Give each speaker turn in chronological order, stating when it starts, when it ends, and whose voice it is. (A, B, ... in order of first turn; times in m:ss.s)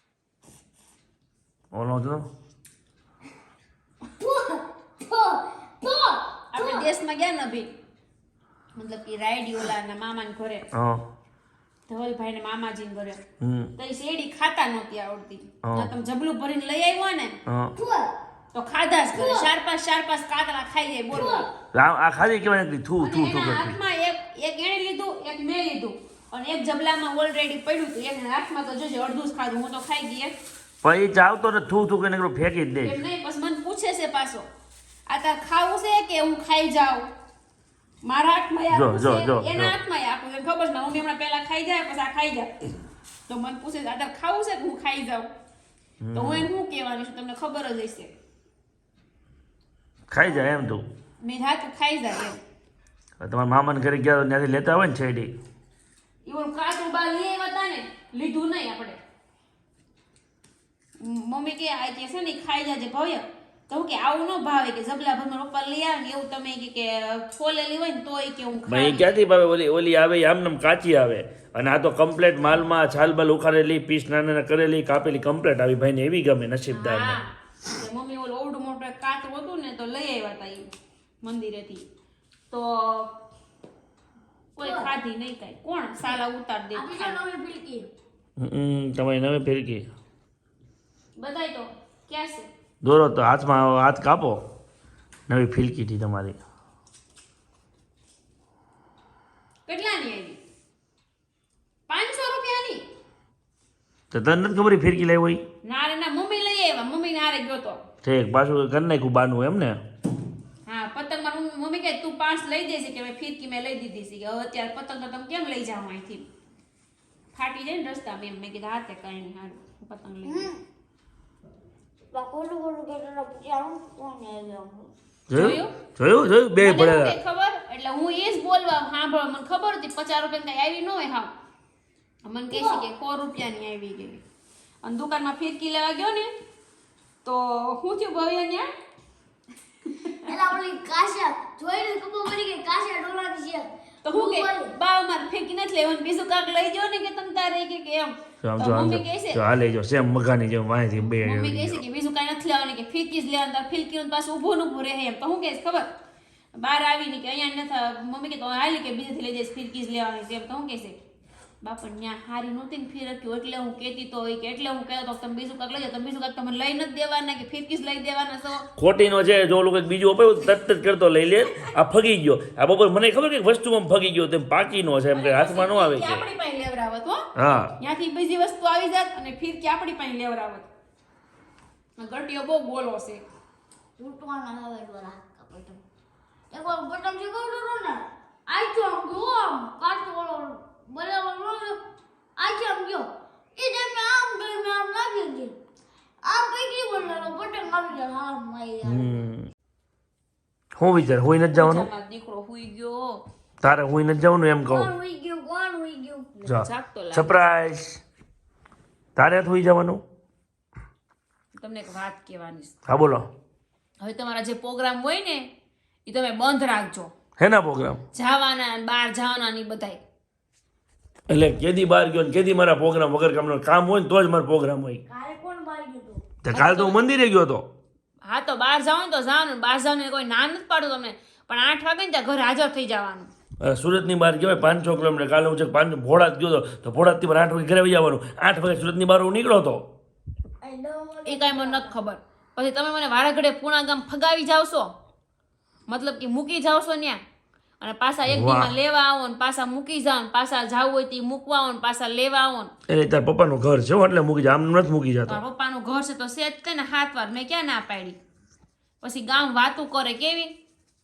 0:01.7-0:02.3 A
0:04.2-0:06.9 B
0:06.5-0:07.7 C
0:08.8-0:10.6 C
0:10.7-0:11.0 A
0:11.9-0:13.2 C
0:13.4-0:13.7 A
0:13.8-0:17.4 C
0:15.6-0:15.9 A
0:17.5-0:17.7 A
0:17.8-0:18.1 B
0:18.5-0:21.5 C
0:19.1-0:19.5 B
0:21.1-0:21.5 B
0:21.7-0:23.8 A
0:23.0-0:30.3 C
0:30.8-0:33.0 A
0:32.8-0:34.5 C
0:35.1-0:37.0 C
0:38.0-0:42.7 C
0:38.7-0:39.7 A
0:43.3-0:45.3 C
0:46.0-0:46.5 A
0:46.1-0:48.1 C
0:50.1-0:50.8 A
0:51.2-0:52.4 C
0:53.2-0:55.3 A
0:56.3-0:59.0 C
1:01.0-1:09.2 C
1:08.7-1:17.2 A
1:16.7-1:20.7 C
1:21.2-1:21.8 C
1:22.5-1:23.1 C
1:24.6-1:27.2 C
1:24.6-1:24.9 B
1:26.7-1:27.9 B
1:28.4-1:29.8 A
1:31.2-1:32.5 C
1:32.8-1:34.4 A
1:35.3-1:36.4 A
1:39.7-1:40.4 C
1:41.9-1:42.8 C
1:44.1-1:45.4 A
1:45.6-1:47.8 C
1:48.0-1:49.8 A
1:50.7-1:56.2 C
1:57.3-2:00.5 C
2:00.2-2:00.6 B
2:02.1-2:04.9 B
2:05.3-2:07.2 A
2:05.3-2:05.8 C
2:06.6-2:11.3 C
2:12.2-2:14.2 C
2:12.5-2:12.8 B
2:14.8-2:16.3 C
2:17.2-2:18.7 C
2:19.9-2:20.2 C
2:20.2-2:24.7 B
2:24.0-2:29.4 C
2:28.4-2:31.8 A
2:31.2-2:35.9 C
2:36.6-2:41.0 C
2:41.6-2:48.7 C
2:48.8-2:56.3 A
2:55.1-2:57.2 C
2:57.4-2:57.8 A
2:57.8-3:00.7 C
3:02.0-3:03.2 C
3:04.0-3:05.8 B
3:06.5-3:11.8 B
3:12.4-3:15.6 B
3:16.2-3:19.2 B
3:18.8-3:19.5 A
3:20.8-3:21.9 A
3:21.5-3:23.2 C
3:23.6-3:24.9 A
3:24.7-3:26.4 B
3:26.4-3:27.4 C
3:26.5-3:28.0 A
3:29.2-3:30.0 A
3:31.6-3:32.7 C
3:32.9-3:33.2 A
3:34.0-3:35.4 C
3:36.1-3:37.1 C
3:37.4-3:38.0 A
3:38.1-3:40.0 C
3:41.3-3:45.0 A
3:45.1-3:46.2 B
3:46.4-3:47.6 A
3:46.5-3:47.0 C
3:48.2-3:53.3 C
3:53.6-3:59.9 A
4:00.6-4:01.9 B
4:01.2-4:04.9 C
4:05.9-4:07.2 C
4:07.8-4:12.7 C
4:08.3-4:08.7 A
4:12.9-4:15.4 A
4:15.3-4:18.2 C
4:19.0-4:20.5 C